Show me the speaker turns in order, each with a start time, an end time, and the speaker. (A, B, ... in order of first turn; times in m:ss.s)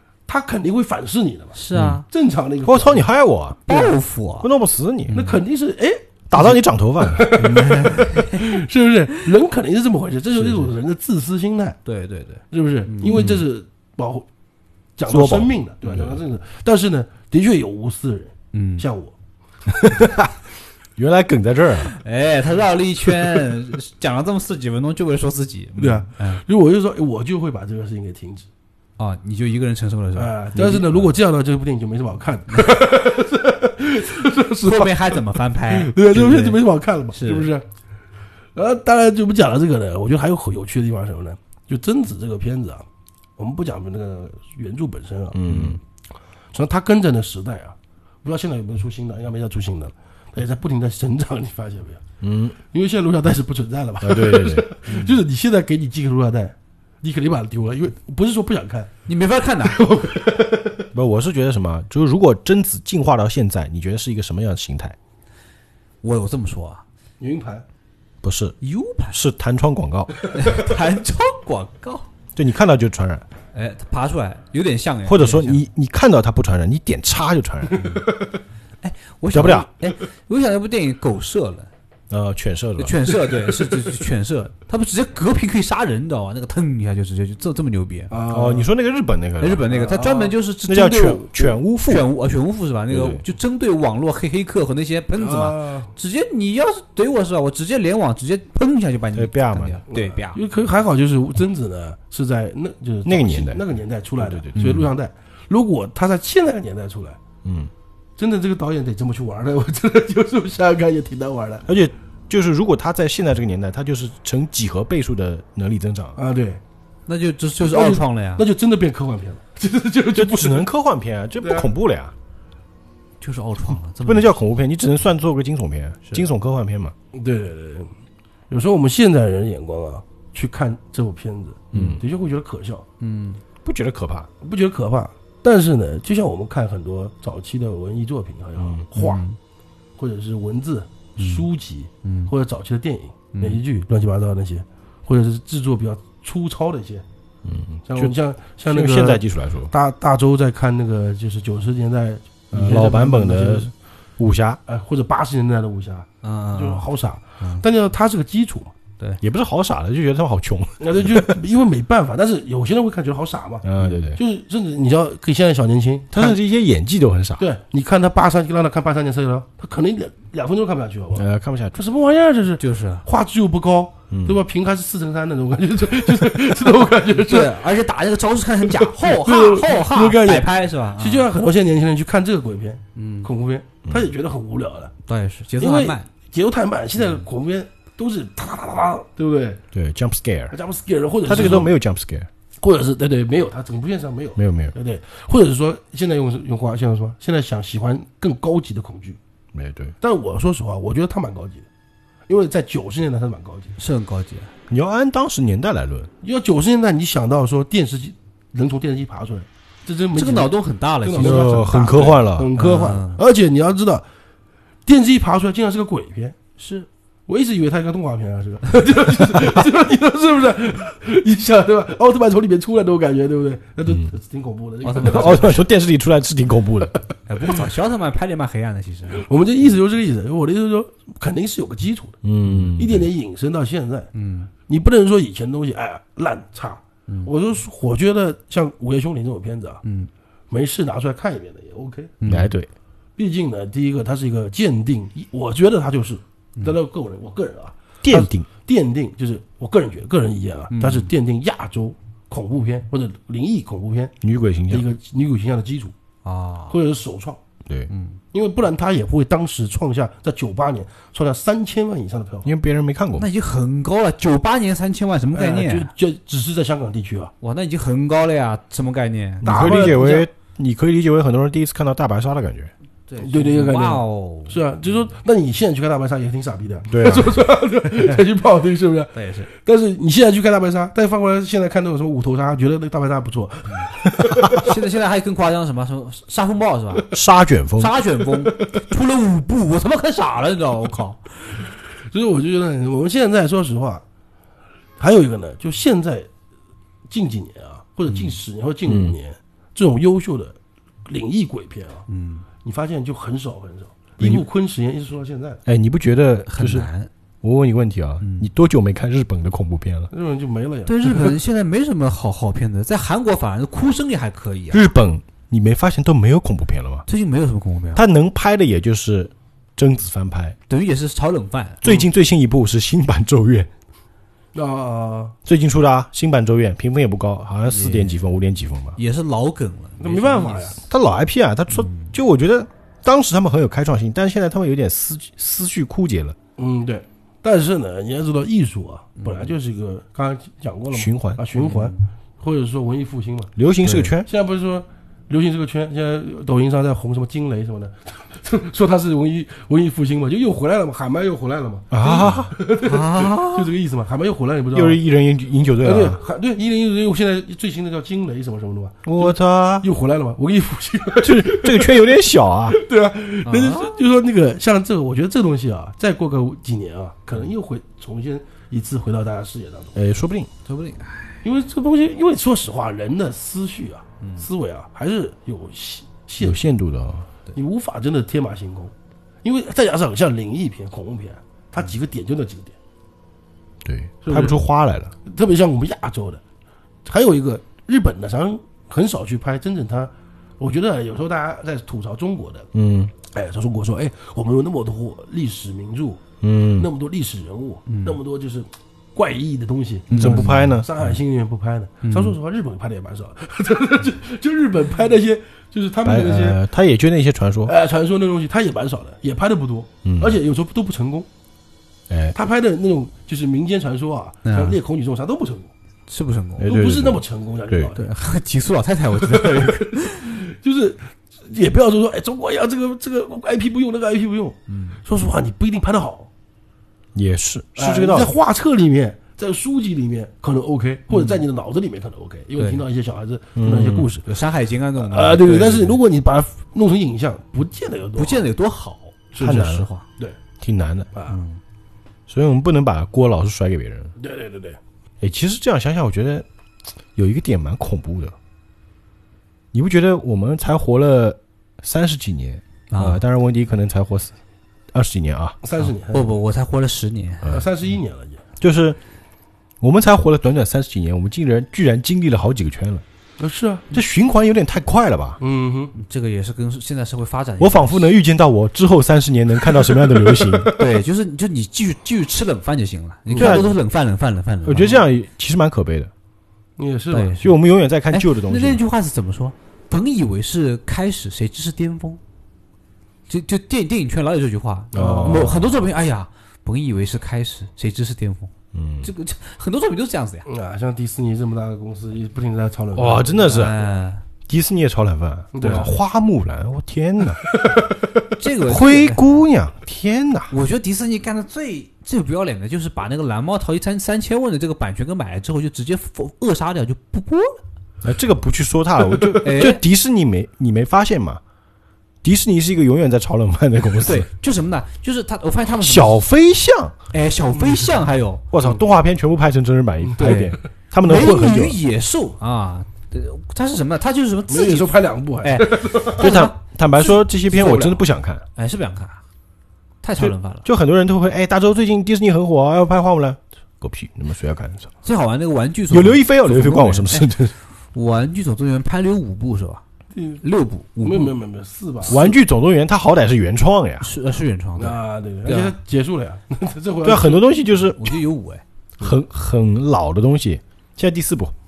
0:00.3-0:01.6 A
0:01.6-0:02.0 B
0:01.7-0:02.0 C
0:02.1-0:03.1 A
0:02.6-0:03.9 C
0:03.7-0:04.5 B
0:04.4-0:05.2 C
0:05.1-0:05.4 B
0:05.1-0:11.8 A
0:06.3-0:07.7 C
0:07.4-0:08.6 B
0:10.4-0:10.7 C
0:11.8-0:13.4 B
0:12.5-0:14.3 A
0:13.1-0:13.4 C
0:15.0-0:19.1 A
0:15.1-0:16.2 C
0:18.5-0:18.8 B
0:19.8-0:20.3 C
0:21.0-0:21.9 C
0:21.9-0:26.4 B
0:25.8-0:28.5 A
0:29.0-0:31.1 B
0:30.2-0:37.6 A
0:34.6-0:36.6 B
0:37.1-0:37.5 B
0:38.6-0:42.9 A
0:43.4-0:45.8 A
0:45.3-0:45.8 C
0:46.5-0:52.0 A
0:52.2-0:52.6 C
0:52.7-0:58.9 A
0:54.0-0:54.7 C
0:54.9-0:55.2 B
0:59.1-0:59.9 B
0:59.6-1:00.9 A
1:00.9-1:05.0 C
1:06.0-1:06.8 B
1:07.2-1:07.6 A
1:08.2-1:08.6 C
1:08.6-1:09.2 B
1:09.1-1:10.1 C
1:10.3-1:12.1 B
1:12.4-1:13.3 C
1:13.5-1:15.6 B
1:15.1-1:17.8 C
1:17.8-1:18.1 B
1:18.8-1:21.7 B
1:19.3-1:19.7 C
1:22.1-1:23.0 C
1:22.8-1:28.1 B
1:28.1-1:28.7 A
1:28.3-1:29.7 C
1:29.4-1:31.3 B
1:29.7-1:30.4 A
1:30.7-1:32.1 C
1:30.9-1:31.4 A
1:31.8-1:40.4 B
1:32.9-1:33.2 C
1:35.2-1:35.9 A
1:39.1-1:39.8 C
1:39.9-1:47.2 A
1:43.0-1:43.6 C
1:44.2-1:44.9 C
1:44.6-1:44.8 B
1:47.4-1:47.7 C
1:48.2-1:51.7 A
1:51.7-1:56.2 C
1:56.2-1:56.6 A
1:57.1-1:58.5 B
1:57.6-2:00.7 A
2:00.2-2:02.1 C
2:01.4-2:01.7 A
2:03.2-2:04.4 B
2:04.1-2:06.9 C
2:07.1-2:07.9 A
2:08.5-2:12.8 A
2:11.7-2:12.0 B
2:11.7-2:12.0 C
2:13.0-2:13.4 B
2:13.6-2:14.3 C
2:14.4-2:19.2 A
2:18.6-2:18.8 C
2:19.0-2:19.4 B
2:20.0-2:27.0 A
2:21.2-2:21.5 B
2:22.0-2:22.3 B
2:23.3-2:23.6 B
2:27.4-2:28.1 C
2:27.9-2:33.7 A
2:28.7-2:29.7 C
2:32.5-2:34.6 C
2:34.7-2:38.8 A
2:36.2-2:36.9 B
2:39.2-2:41.4 C
2:40.8-2:46.4 A
2:43.6-2:44.2 C
2:46.1-2:47.4 C
2:47.4-2:57.6 A
2:51.2-2:51.8 C
2:52.6-2:53.0 B
2:54.1-2:54.4 C
2:57.2-3:01.3 B
2:58.7-3:04.9 A
3:03.0-3:03.3 B
3:05.1-3:06.1 B
3:05.6-3:09.6 A
3:07.0-3:07.2 B
3:09.7-3:10.6 C
3:10.5-3:11.7 A
3:11.3-3:12.3 C
3:12.6-3:19.2 A
3:14.4-3:14.8 C
3:19.5-3:20.0 C
3:20.0-3:21.6 A
3:22.3-3:23.8 A
3:23.8-3:24.5 B
3:24.7-3:26.1 C
3:26.2-3:34.0 A
3:30.2-3:33.2 B
3:31.2-3:32.5 C
3:34.9-3:36.4 A
3:36.6-3:36.9 B
3:37.3-3:45.6 A
3:44.8-3:45.6 B
3:45.0-3:46.9 C
3:47.3-3:49.2 B
3:49.2-3:52.2 A
3:52.2-3:53.1 C
3:52.5-3:52.7 B
3:52.8-3:54.1 A
3:54.1-3:54.5 B
3:54.7-3:59.8 A
3:59.8-4:00.1 B
4:00.5-4:02.1 A
4:02.2-4:02.5 B
4:02.3-4:02.7 C
4:03.2-4:14.2 A
4:08.0-4:08.5 C
4:10.7-4:11.1 B
4:14.2-4:14.8 C
4:14.7-4:15.9 A
4:16.2-4:16.8 B
4:16.7-4:17.4 A
4:17.9-4:18.2 B
4:18.3-4:22.5 A
4:22.4-4:23.3 C
4:23.2-4:25.9 B
4:25.3-4:27.3 A
4:27.4-4:29.5 B
4:29.4-4:32.7 C
4:29.4-4:30.3 A
4:33.1-4:34.6 B
4:33.2-4:44.6 A
4:36.9-4:37.4 C
4:39.1-4:39.5 B
4:44.5-4:47.1 B
4:47.1-4:48.0 C
4:47.8-4:51.6 B
4:52.1-4:54.0 A
4:55.0-4:56.3 A
4:57.1-5:02.0 A
4:58.1-4:58.4 B
4:58.9-4:59.2 C
5:02.1-5:02.5 B
5:02.6-5:05.6 A
5:05.7-5:06.9 C
5:06.5-5:07.1 B
5:07.4-5:10.1 C
5:08.2-5:08.5 B
5:10.1-5:11.4 A
5:10.9-5:14.8 B
5:14.7-5:17.1 C
5:17.1-5:18.0 B
5:18.0-5:20.6 C
5:20.7-5:21.9 B
5:21.8-5:23.7 C
5:24.5-5:25.4 A
5:25.5-5:29.0 C
5:27.7-5:28.2 B
5:29.0-5:30.8 B
5:30.0-5:30.8 A
5:30.9-5:36.4 C
5:31.7-5:32.1 B
5:36.6-5:43.5 A
5:39.2-5:39.5 B
5:40.9-5:41.4 C
5:41.6-5:42.0 B
5:43.6-5:44.3 C
5:43.8-5:44.1 B
5:44.3-5:55.0 A
5:51.9-5:52.6 C
5:52.0-5:53.7 B
5:54.7-5:56.2 C
5:55.8-6:02.1 A
5:59.0-5:59.9 C
6:01.2-6:02.8 C
6:02.7-6:10.0 A
6:03.4-6:04.0 B
6:10.0-6:10.5 C
6:10.7-6:11.4 B
6:11.4-6:16.6 A
6:14.2-6:14.5 B
6:16.4-6:17.3 C
6:17.5-6:18.9 A
6:19.4-6:22.8 A
6:23.8-6:25.1 C
6:24.2-6:24.6 A
6:25.2-6:26.4 A
6:27.0-6:32.7 A
6:32.7-6:33.1 C
6:33.3-6:36.2 A
6:36.4-6:36.9 C
6:36.8-6:46.6 A
6:37.9-6:38.2 B
6:40.1-6:41.2 B
6:40.1-6:40.9 C
6:42.0-6:42.4 B
6:46.0-6:47.8 C
6:47.7-6:51.3 A
6:50.0-6:50.4 C
6:52.1-6:52.4 C
6:52.4-6:55.7 A
6:54.4-6:54.8 B
6:56.1-6:56.7 B
6:56.6-6:57.9 C
6:56.7-6:58.1 A
6:58.0-7:00.4 B
6:59.2-7:06.3 A
7:04.7-7:05.0 B
7:07.2-7:08.3 C
7:07.8-7:14.3 A
7:11.1-7:11.4 B
7:12.6-7:12.8 B
7:13.6-7:14.1 C
7:14.2-7:16.0 B
7:15.0-7:18.5 A
7:18.2-7:20.0 B
7:19.3-7:20.4 A
7:19.4-7:19.9 C
7:20.6-7:21.1 C
7:21.1-7:21.4 A
7:21.3-7:21.6 B
7:22.3-7:24.1 C
7:24.2-7:24.8 A
7:25.2-7:26.5 C
7:27.2-7:28.4 C
7:29.7-7:34.4 C
7:32.9-7:33.2 B
7:34.9-7:35.6 C
7:35.6-7:36.3 A
7:35.8-7:37.5 B
7:37.5-7:38.4 A
7:38.6-7:39.0 C
7:39.8-7:43.0 C
7:43.4-7:43.9 A
7:43.9-7:45.4 C
7:45.4-7:46.0 A
7:46.0-7:48.1 B
7:47.6-7:50.7 C
7:49.7-7:50.7 A
7:50.7-7:55.0 B
7:53.3-7:53.7 A
7:53.4-7:53.7 C
7:54.6-7:56.1 C
7:56.8-7:57.4 A
7:57.1-7:57.6 B
7:57.4-7:58.8 C
7:58.1-8:02.2 B
8:03.3-8:10.5 B
8:04.9-8:05.7 C
8:04.9-8:05.5 A
8:08.7-8:09.1 C
8:10.5-8:13.8 A
8:13.0-8:13.8 C
8:13.4-8:14.2 B
8:14.5-8:17.4 C
8:15.5-8:15.9 A
8:15.6-8:15.9 B
8:17.5-8:18.0 A
8:18.4-8:19.3 B
8:18.6-8:20.5 C
8:20.5-8:27.6 B
8:28.0-8:31.4 C
8:29.3-8:29.8 B
8:32.2-8:34.3 C
8:34.0-8:36.2 B
8:35.8-8:37.0 C
8:37.1-8:38.4 B
8:38.5-8:41.8 C
8:40.2-8:40.5 A
8:40.2-8:49.2 B
8:44.5-8:46.3 A
8:46.1-8:48.4 C
8:50.0-8:50.7 B
8:50.2-8:54.9 C
8:55.0-8:57.4 B
8:55.9-8:57.5 C
8:57.9-8:59.8 B
9:00.2-9:00.4 A
9:00.4-9:01.3 B
9:01.0-9:02.4 A
9:02.1-9:04.1 C
9:04.0-9:05.8 B
9:04.8-9:07.4 A
9:07.0-9:08.2 C
9:07.9-9:08.6 B
9:09.0-9:11.5 C